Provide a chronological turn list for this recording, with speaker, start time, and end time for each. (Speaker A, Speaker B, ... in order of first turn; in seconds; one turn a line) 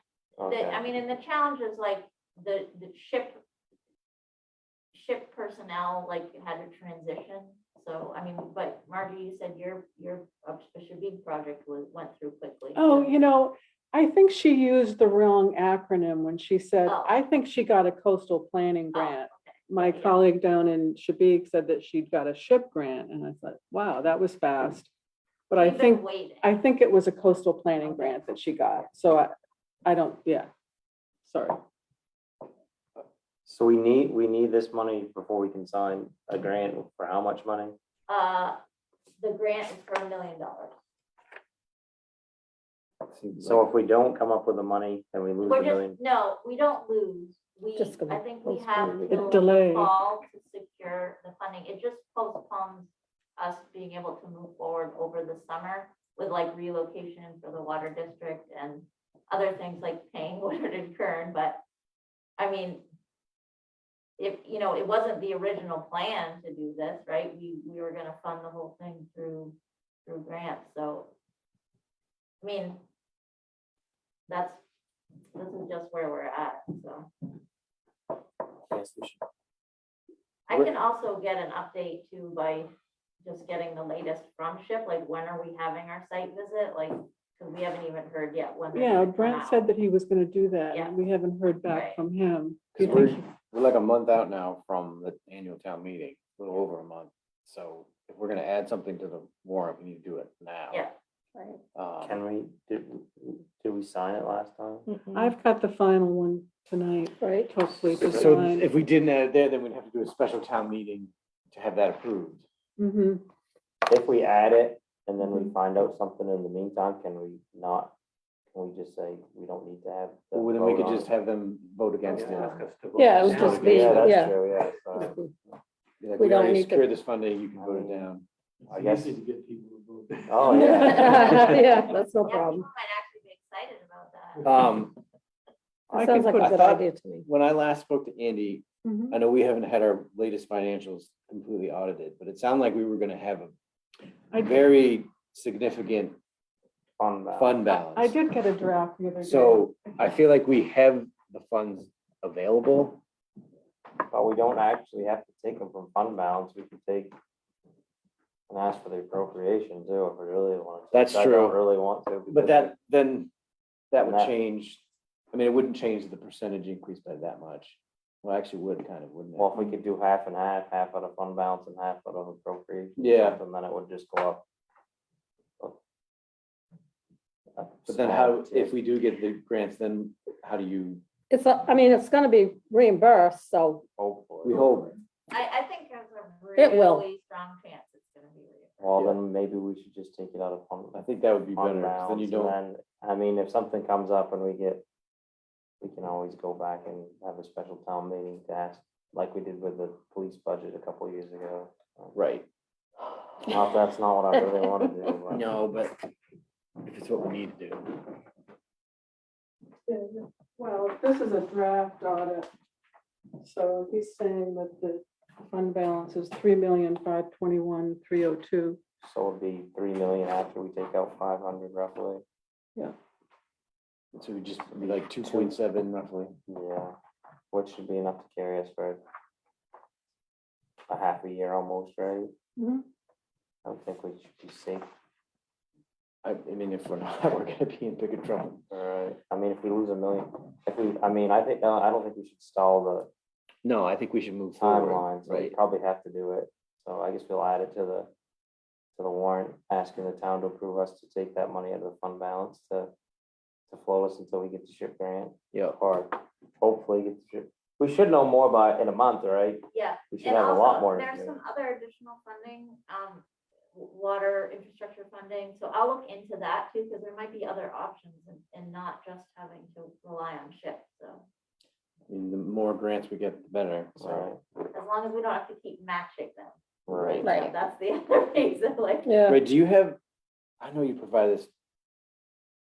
Speaker A: 0.4-0.9
Speaker B: 0.5-3.4
Speaker B: 4.9-13.2
Speaker C: 12.7-24.9
Speaker B: 16.9-17.2
Speaker B: 18.9-20.2
Speaker C: 25.5-29.3
Speaker B: 25.5-26.6
Speaker B: 27.8-28.9
Speaker C: 29.9-30.5
Speaker C: 31.2-31.6
Speaker A: 33.5-37.8
Speaker B: 38.1-38.6
Speaker B: 39.2-40.8
Speaker D: 43.1-43.6
Speaker A: 43.4-46.0
Speaker B: 45.4-61.6
Speaker E: 47.8-49.4
Speaker C: 49.1-50.0
Speaker B: 62.4-62.8
Speaker B: 64.2-69.5
Speaker B: 70.1-71.1
Speaker B: 72.4-72.8
Speaker B: 74.3-74.6
Speaker B: 75.3-77.1
Speaker D: 78.7-79.2
Speaker B: 80.5-89.6
Speaker C: 88.7-93.2
Speaker B: 90.7-91.0
Speaker B: 91.7-92.0
Speaker D: 92.7-100.9
Speaker E: 101.3-101.6
Speaker D: 101.8-102.2
Speaker A: 102.0-104.9
Speaker E: 104.9-105.3
Speaker C: 105.1-108.7
Speaker E: 107.2-107.5
Speaker D: 107.9-112.4
Speaker C: 112.8-113.2
Speaker A: 113.9-117.9
Speaker A: 118.5-121.1
Speaker D: 120.3-122.6
Speaker F: 122.1-124.1
Speaker E: 123.0-124.4
Speaker D: 123.3-123.7
Speaker A: 123.5-125.1
Speaker E: 125.0-125.3
Speaker D: 126.0-128.3
Speaker E: 126.2-126.9
Speaker A: 127.5-128.1
Speaker F: 128.7-132.0
Speaker A: 128.7-129.2
Speaker A: 130.3-131.3
Speaker E: 130.5-132.7
Speaker B: 130.7-131.6
Speaker B: 132.2-134.5
Speaker D: 134.4-134.9
Speaker A: 135.9-136.5
Speaker C: 135.9-136.5
Speaker E: 135.9-137.3
Speaker D: 136.3-143.5
Speaker C: 138.8-139.2
Speaker C: 144.3-144.6
Speaker D: 144.3-146.2
Speaker A: 147.0-147.6
Speaker D: 147.4-148.2
Speaker C: 147.7-150.0
Speaker D: 149.2-153.0
Speaker A: 154.1-157.2
Speaker A: 158.5-162.7
Speaker D: 160.9-161.6
Speaker D: 162.3-163.3
Speaker D: 163.9-169.5
Speaker A: 164.0-164.3
Speaker A: 169.4-174.4
Speaker D: 173.0-173.4
Speaker A: 177.6-178.7
Speaker D: 177.9-181.0
Speaker E: 181.3-183.8
Speaker A: 184.0-184.7
Speaker D: 184.4-185.0
Speaker B: 185.3-188.9
Speaker E: 186.6-187.1
Speaker A: 188.8-191.0
Speaker D: 190.9-192.6
Speaker A: 191.6-194.8
Speaker A: 195.8-202.2
Speaker D: 202.2-202.5
Speaker A: 203.5-205.5
Speaker D: 205.3-206.0
Speaker D: 206.8-207.9
Speaker C: 209.9-212.5
Speaker C: 213.4-218.8
Speaker A: 219.0-222.2
Speaker D: 224.1-226.3
Speaker A: 225.2-225.5
Speaker A: 226.5-226.9
Speaker A: 227.5-229.0
Speaker A: 230.9-232.3
Speaker C: 232.6-232.8
Speaker A: 233.7-234.9
Speaker D: 236.2-238.7
Speaker A: 238.7-243.1
Speaker D: 243.6-245.6
Speaker A: 244.6-248.1
Speaker A: 249.0-252.9
Speaker A: 253.7-261.4
Speaker D: 255.5-255.8
Speaker B: 259.7-271.2
Speaker D: 272.1-274.3
Speaker A: 274.0-274.4
Speaker B: 274.7-279.1
Speaker A: 276.9-277.3
Speaker D: 276.9-277.3
Speaker E: 277.2-277.5
Speaker E: 279.1-279.4
Speaker D: 279.3-280.0
Speaker D: 280.6-281.5